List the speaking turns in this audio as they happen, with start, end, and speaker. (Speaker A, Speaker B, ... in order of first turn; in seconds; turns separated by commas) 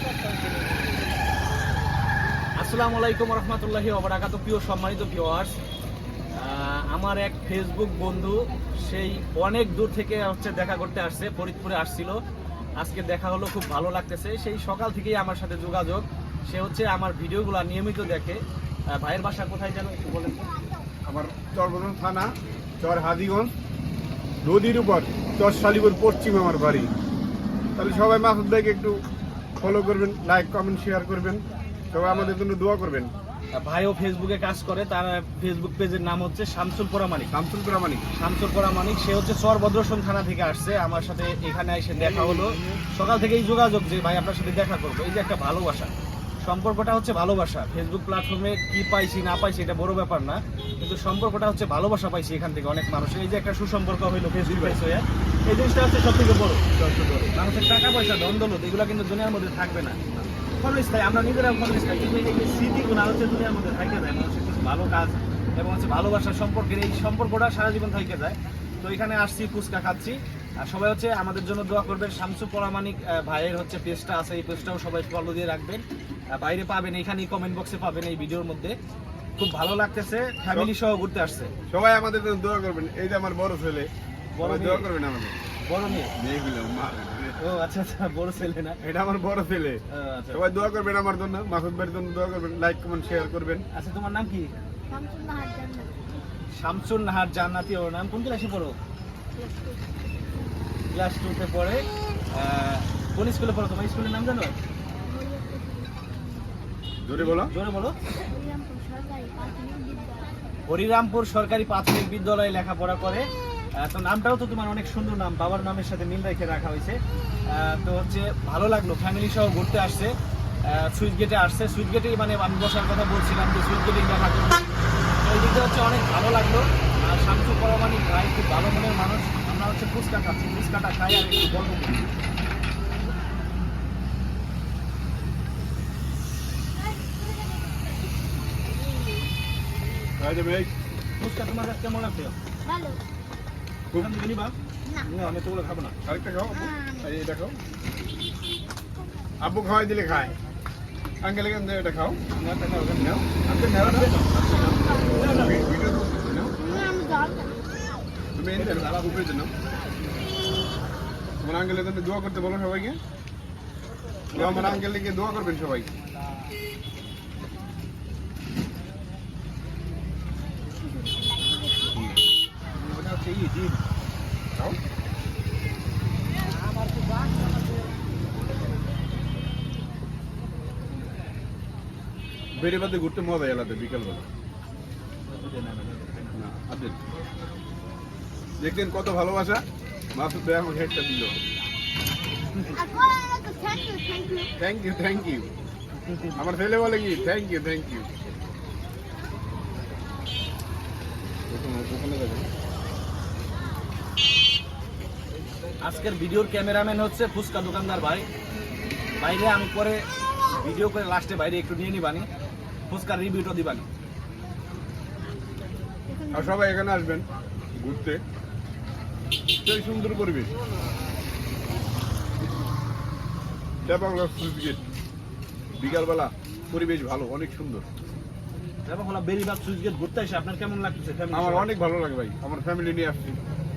Speaker A: 2.6-5.5, Speaker A: 6.4-12.2, Speaker A: 12.8-18.4, Speaker A: 18.9-20.5, Speaker B: 21.1-22.3, Speaker B: 22.8-23.5, Speaker B: 24.4-26.9, Speaker B: 27.8-29.0, Speaker B: 29.6-31.4, Speaker B: 31.9-33.1, Speaker A: 32.1-32.4, Speaker A: 33.5-37.3, Speaker B: 37.3-38.1, Speaker A: 38.1-45.9, Speaker B: 42.0-42.4, Speaker A: 46.4-56.6, Speaker B: 54.4-54.8, Speaker B: 56.8-57.3, Speaker A: 57.4-60.0, Speaker A: 60.6-75.8, Speaker A: 76.3-78.8, Speaker A: 79.4-81.5, Speaker B: 81.7-83.9, Speaker A: 84.3-84.9, Speaker B: 84.4-85.5, Speaker A: 85.7-86.1, Speaker B: 86.1-87.4, Speaker A: 87.4-88.8, Speaker B: 88.8-89.8, Speaker A: 89.9-90.4, Speaker B: 90.3-93.7, Speaker A: 93.7-94.5, Speaker C: 94.9-96.0, Speaker A: 96.6-98.8, Speaker C: 99.4-99.8, Speaker A: 100.9-104.5, Speaker C: 105.0-106.6, Speaker B: 107.0-107.5, Speaker A: 107.2-108.0, Speaker C: 108.2-110.3, Speaker A: 110.7-113.2, Speaker A: 113.8-117.0, Speaker A: 117.5-120.1, Speaker A: 120.7-124.7, Speaker A: 125.2-132.1, Speaker B: 140.2-140.7, Speaker A: 141.2-142.4, Speaker C: 142.7-143.0, Speaker A: 143.9-146.0, Speaker B: 146.0-147.6, Speaker C: 146.5-147.1, Speaker B: 149.4-150.4, Speaker B: 151.2-152.2, Speaker A: 152.4-155.6, Speaker B: 153.0-154.1, Speaker C: 154.4-155.2, Speaker B: 155.4-156.5, Speaker C: 156.6-157.6, Speaker B: 158.3-159.5, Speaker A: 158.5-159.2, Speaker B: 161.4-163.0, Speaker A: 164.3-164.8, Speaker B: 164.3-165.9, Speaker C: 170.8-172.0, Speaker A: 172.8-173.8, Speaker B: 182.6-184.3, Speaker A: 185.3-186.4, Speaker B: 186.3-187.0, Speaker B: 188.6-189.6, Speaker B: 190.1-191.4, Speaker C: 192.7-194.5, Speaker B: 194.6-195.5, Speaker A: 196.1-196.4, Speaker B: 196.3-198.1, Speaker B: 201.5-202.5, Speaker A: 205.8-208.3, Speaker A: 209.2-210.0, Speaker A: 210.5-212.3, Speaker A: 212.9-213.9, Speaker C: 216.1-216.5, Speaker B: 216.3-217.2, Speaker B: 217.8-218.2, Speaker B: 219.6-220.5, Speaker B: 223.8-224.8, Speaker B: 225.8-227.9, Speaker A: 228.9-231.7, Speaker B: 231.3-233.4